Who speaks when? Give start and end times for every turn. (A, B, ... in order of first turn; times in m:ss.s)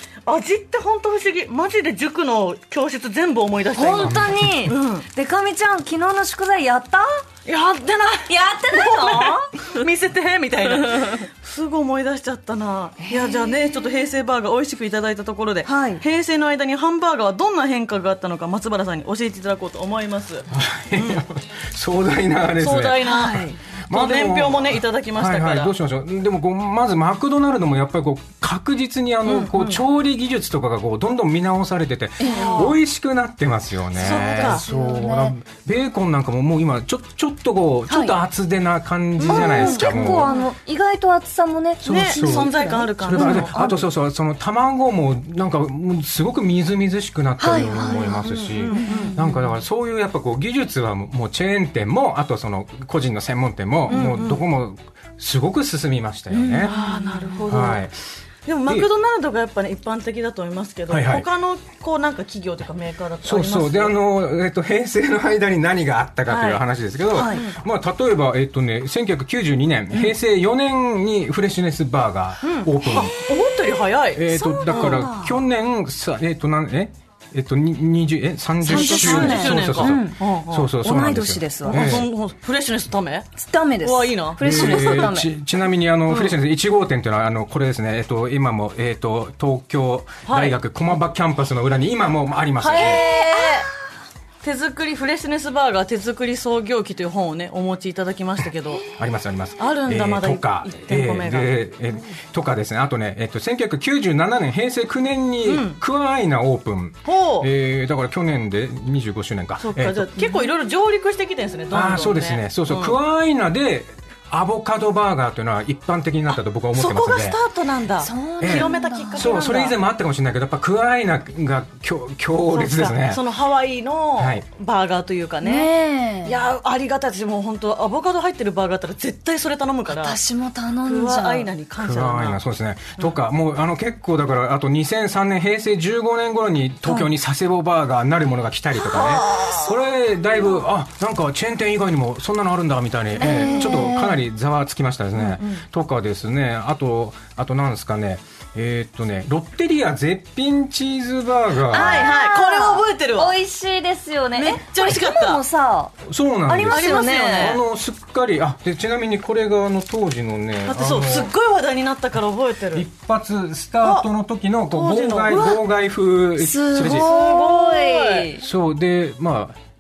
0:00.2-0:05.0 A
0:03.7-0:07.2 B
0:04.0-0:04.7 C
0:07.5-0:21.2 A
0:08.3-0:09.5 B
0:13.0-0:13.7 B
0:15.6-0:16.0 B
0:20.5-0:40.3 C
0:22.6-0:25.8 A
0:23.0-0:23.6 B
0:29.2-0:29.8 A
0:32.2-0:32.8 A
0:32.2-0:32.6 B
0:34.0-0:34.6 A
0:34.0-0:35.4 B
0:37.9-0:38.2 B
0:39.2-0:40.5 A
0:39.2-0:43.8 B
0:41.8-0:56.7 C
0:41.8-0:43.7 A
0:47.4-0:49.2 B
0:48.2-0:49.5 A
0:53.9-0:54.4 A
0:56.3-0:57.4 B
0:56.6-0:57.8 A
0:57.5-0:57.9 C
0:58.5-1:04.0 A
1:00.9-1:01.2 C
1:03.2-1:13.1 C
1:06.3-1:06.6 A
1:07.1-1:07.4 B
1:07.2-1:07.6 A
1:12.4-1:15.0 A
1:14.1-1:22.1 C
1:14.3-1:15.4 B
1:18.6-1:20.2 B
1:18.7-1:20.7 A
1:20.8-1:22.0 B
1:21.6-1:23.3 A
1:23.4-1:25.3 B
1:23.8-1:25.1 A
1:24.4-1:33.0 C
1:26.1-1:26.4 A
1:30.2-1:30.6 A
1:32.6-1:33.7 A
1:32.8-1:33.7 B
1:34.4-1:38.8 A
1:38.9-1:50.1 C
1:39.6-1:41.6 A
1:45.4-1:45.8 A
1:47.0-1:47.5 A
1:49.6-1:53.0 A
1:50.2-1:50.5 B
1:51.7-1:57.4 C
1:56.7-1:59.8 A
1:58.0-1:59.4 B
1:58.4-2:03.2 C
2:02.5-2:05.7 A
2:04.2-2:04.4 C
2:05.4-2:06.4 B
2:06.2-2:10.2 A
2:09.9-2:11.5 B
2:10.8-2:12.4 A
2:11.8-2:32.1 C
2:18.8-2:19.7 A
2:23.2-2:24.2 B
2:23.3-2:23.8 A
2:25.2-2:25.6 A
2:31.7-2:33.4 A
2:31.7-2:37.6 B
2:34.4-2:35.4 A
2:36.0-2:41.3 C
2:36.7-2:37.6 A
2:40.6-2:42.9 A
2:42.7-2:47.1 C
2:43.8-2:44.1 A
2:44.7-2:45.6 A
2:46.4-2:48.4 B
2:46.8-2:48.4 A
2:48.4-2:49.6 C